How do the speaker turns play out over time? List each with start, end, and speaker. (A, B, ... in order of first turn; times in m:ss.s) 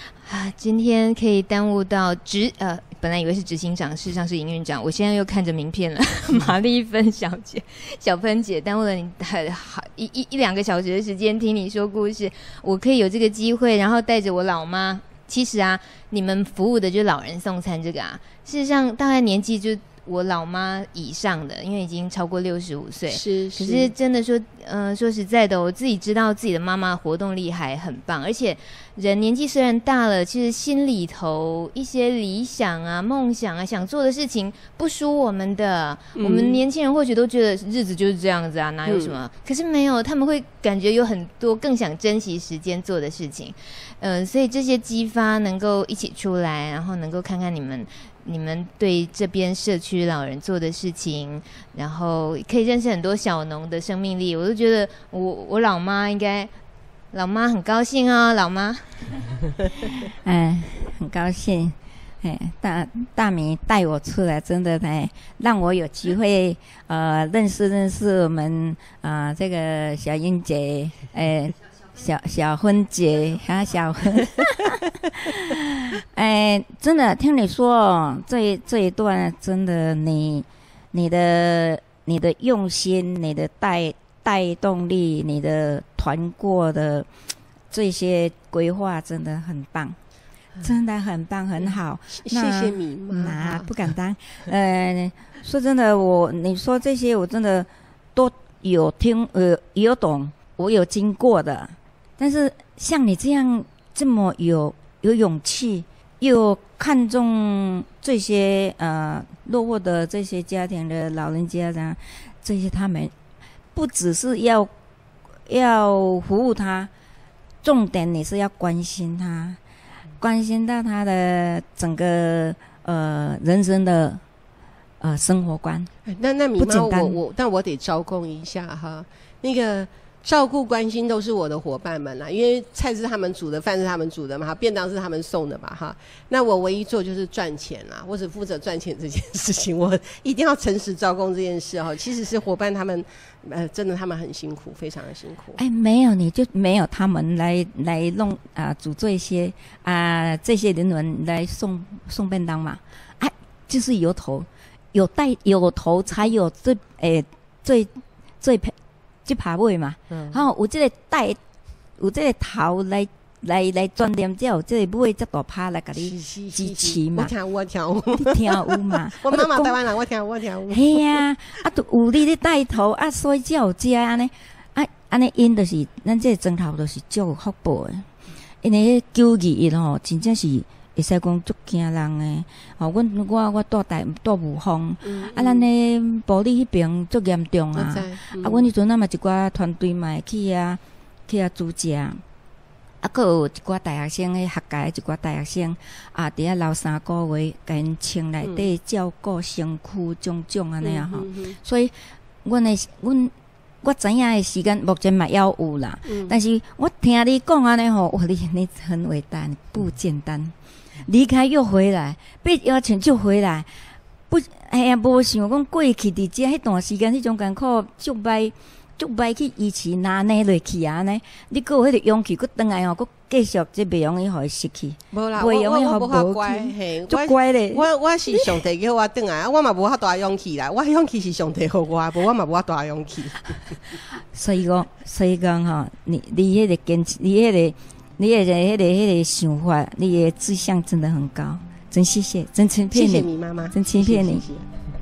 0:00.2-0:56.5 A
0:23.1-0:23.9 B
0:36.1-0:36.6 B
0:38.8-0:39.2 B
0:57.1-0:59.2 A
1:00.2-1:27.1 C
1:27.7-1:30.0 C
1:30.6-1:53.1 C
1:31.6-1:33.9 B
1:53.7-1:54.7 C
1:55.5-1:56.9 C
1:57.6-1:59.6 C
2:00.2-2:04.2 C
2:05.0-2:05.9 C
2:06.1-2:25.6 B
2:06.6-2:07.2 C
2:25.6-2:38.7 C
2:39.2-2:41.4 C
2:40.1-2:40.4 B
2:42.0-2:47.3 C
2:46.0-2:51.2 B
2:48.1-2:49.7 C
2:50.7-2:58.1 C
2:58.6-3:12.2 C
3:05.0-3:05.6 B
3:07.7-3:08.7 B
3:13.0-3:21.9 C
3:18.4-3:18.7 B
3:20.8-3:21.6 B
3:22.4-3:30.5 C
3:26.1-3:26.4 B
3:31.0-3:33.7 C
3:34.3-3:48.6 C
3:45.1-3:53.8 B
3:54.3-4:04.4 C
4:02.9-4:04.6 B